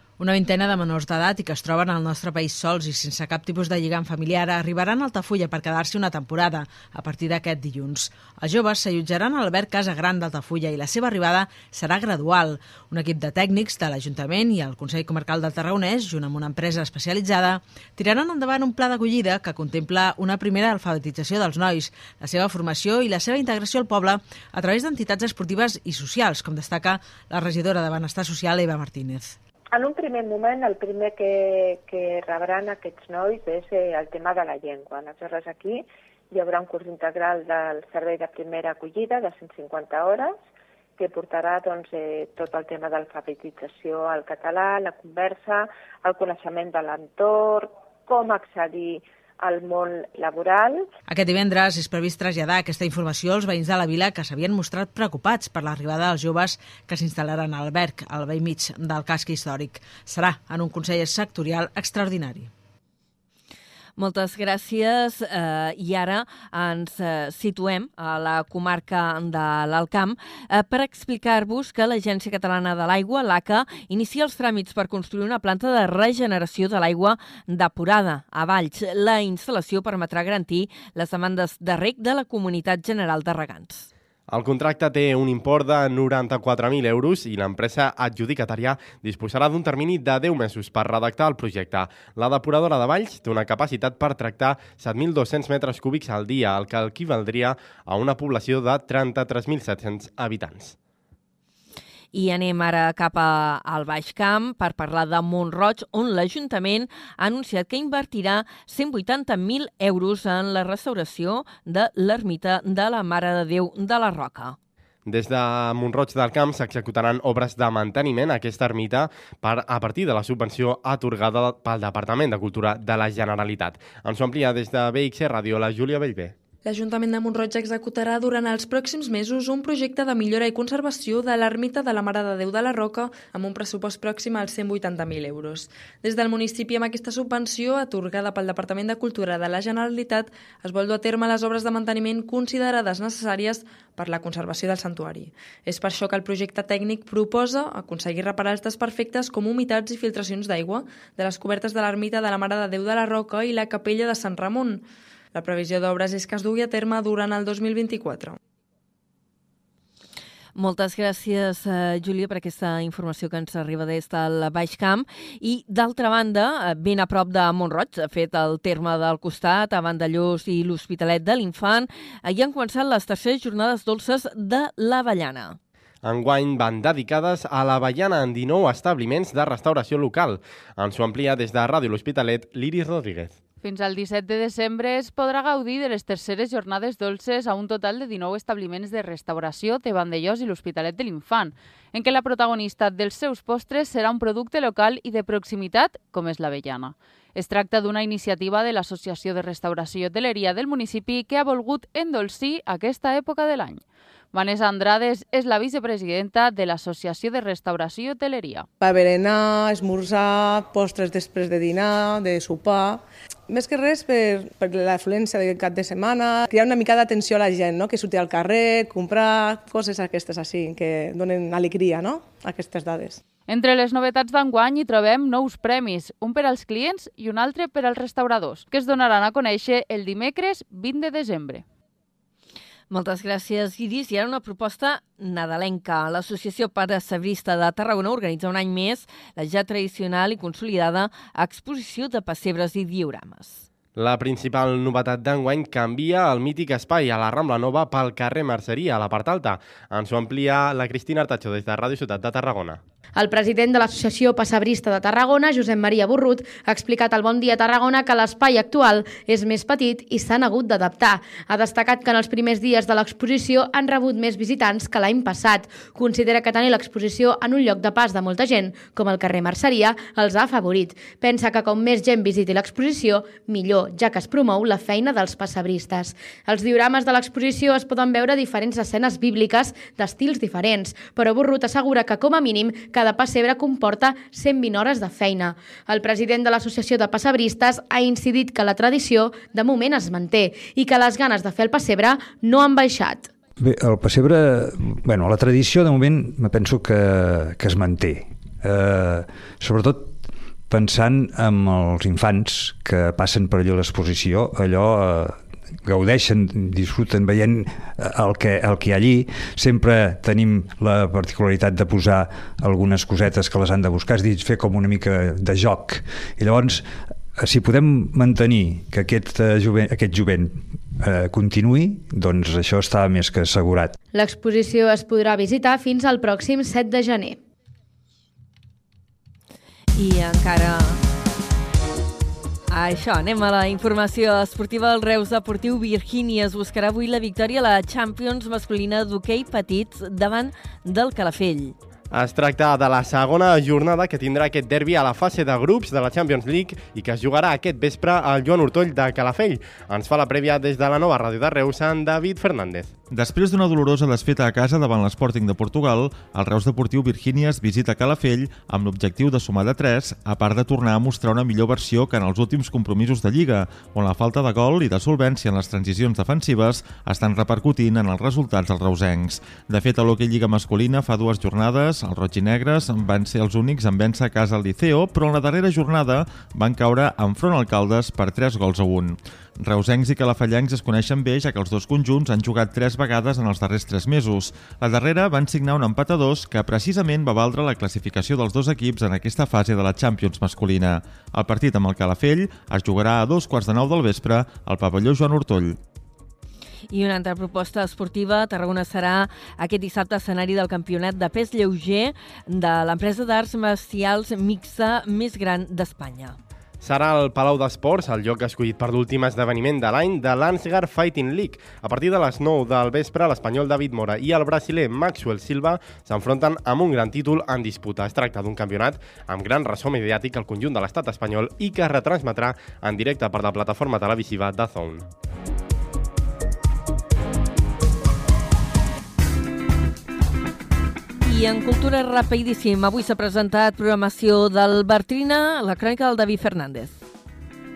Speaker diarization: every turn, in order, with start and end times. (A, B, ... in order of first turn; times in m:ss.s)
0:00.2-0:29.4 A
0:29.7-0:40.4 B
0:41.0-0:50.9 B
0:51.1-1:02.5 A
1:04.0-1:23.9 C
1:24.3-1:40.8 D
1:42.1-1:54.6 C
1:55.0-2:06.3 D
2:06.6-2:38.4 E
2:40.5-2:55.6 C
2:56.0-3:03.4 D
3:03.6-3:28.7 F
3:28.8-3:43.2 G
3:43.5-3:51.6 F
3:52.9-4:03.6 C
4:04.0-4:12.8 D
4:13.2-4:53.3 H
4:53.6-5:23.9 I
5:24.1-5:27.4 H
5:29.9-5:31.0 C
5:32.7-5:41.7 C
5:42.1-5:52.9 D
5:53.1-6:35.8 J
6:36.9-6:46.4 C
6:46.8-7:05.1 D
7:11.2-7:17.0 C